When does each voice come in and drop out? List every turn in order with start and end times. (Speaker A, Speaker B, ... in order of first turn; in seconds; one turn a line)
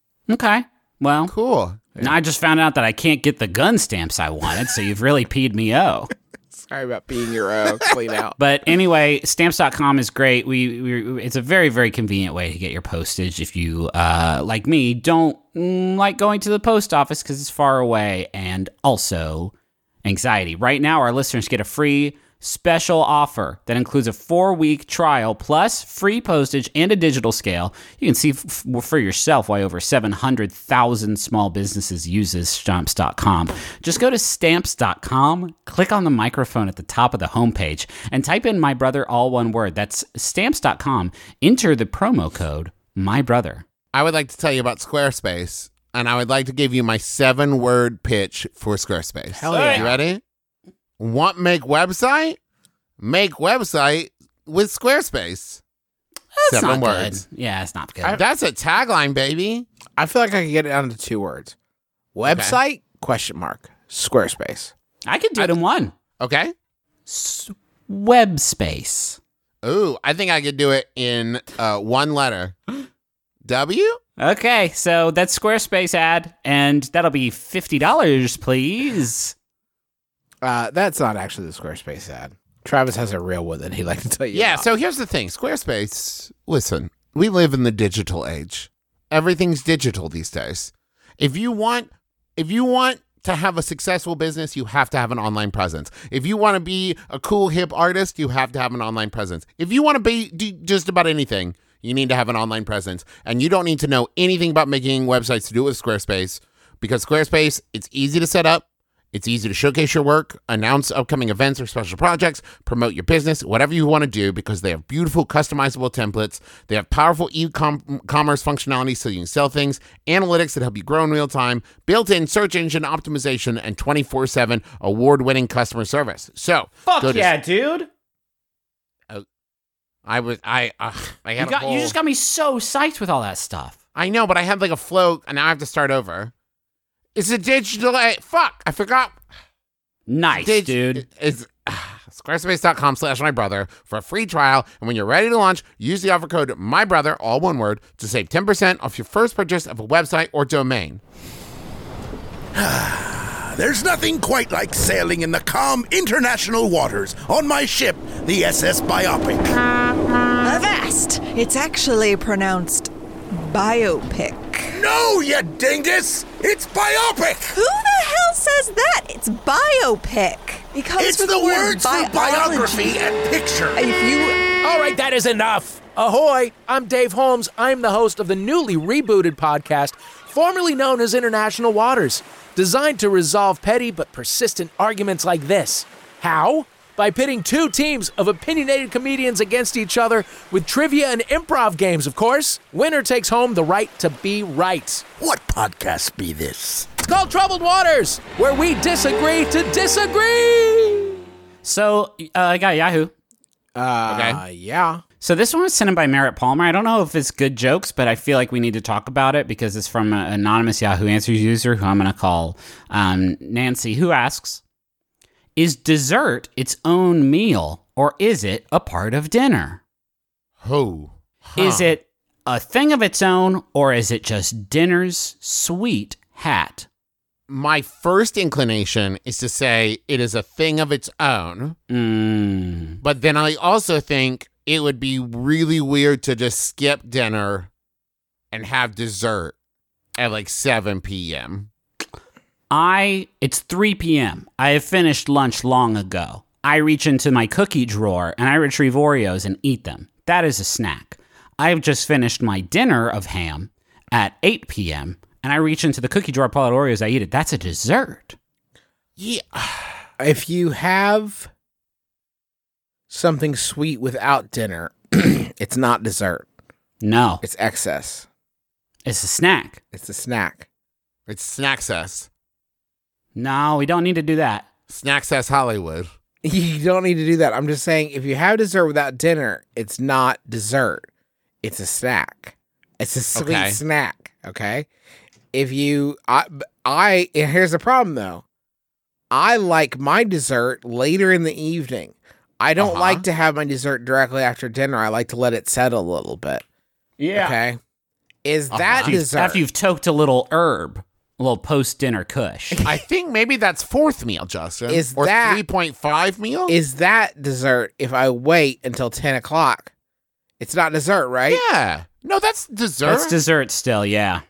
Speaker A: 0.3-1.3
Speaker B: 1.3-1.9
Speaker A: 2.0-6.1
Speaker C: 6.5-8.4
Speaker A: 8.4-19.5
Speaker A: 20.0-43.6
Speaker B: 43.9-50.2
Speaker C: 49.3-50.0
Speaker A: 49.5-49.9
Speaker B: 51.0-52.4
Speaker B: 53.0-55.6
Speaker A: 56.4-58.2
Speaker B: 56.5-57.2
Speaker B: 58.0-59.6
Speaker C: 60.0-61.5
Speaker C: 62.1-64.7
Speaker B: 62.2-62.6
Speaker A: 65.1-65.9
Speaker B: 66.2-66.5
Speaker A: 67.1-69.2
Speaker B: 69.6-72.5
Speaker B: 73.4-74.0
Speaker A: 74.2-79.3
Speaker C: 80.4-84.7
Speaker B: 84.3-127.3
Speaker A: 126.8-127.9
Speaker B: 130.0-131.9
Speaker A: 131.4-133.7
Speaker B: 133.9-136.3
Speaker B: 137.1-139.2
Speaker A: 140.1-141.0
Speaker B: 140.3-151.0
Speaker D: 152.5-159.6
Speaker E: 160.4-164.8
Speaker D: 164.7-167.6
Speaker E: 167.5-173.0
Speaker D: 170.9-173.8
Speaker E: 173.7-174.4
Speaker F: 174.6-195.1
Speaker D: 195.2-196.9
Speaker F: 196.9-201.2
Speaker A: 201.6-203.1
Speaker C: 203.7-205.0
Speaker B: 204.1-204.4
Speaker A: 205.2-214.6
Speaker A: 215.6-219.8
Speaker B: 220.6-221.9
Speaker A: 221.6-226.9
Speaker B: 227.5-231.8
Speaker A: 231.9-233.0
Speaker B: 233.0-237.7
Speaker B: 238.5-239.5
Speaker B: 240.2-241.7
Speaker A: 242.7-258.4
Speaker B: 259.2-260.0
Speaker C: 260.2-261.5
Speaker C: 263.1-266.4
Speaker A: 267.0-267.4
Speaker C: 267.4-268.3
Speaker A: 269.1-269.8
Speaker C: 269.9-270.7
Speaker B: 271.3-272.3
Speaker A: 273.3-274.7
Speaker B: 274.9-276.1
Speaker C: 276.4-281.1
Speaker C: 281.6-284.9
Speaker B: 283.3-283.8
Speaker C: 285.5-288.4
Speaker C: 289.3-296.6
Speaker B: 292.8-293.2
Speaker A: 297.2-297.6
Speaker C: 297.3-297.8
Speaker C: 298.4-299.6
Speaker B: 298.7-299.1
Speaker A: 299.0-302.8
Speaker B: 302.8-306.7
Speaker C: 304.9-305.6
Speaker C: 306.7-309.9
Speaker C: 310.6-311.6
Speaker B: 311.5-313.4
Speaker A: 313.1-314.4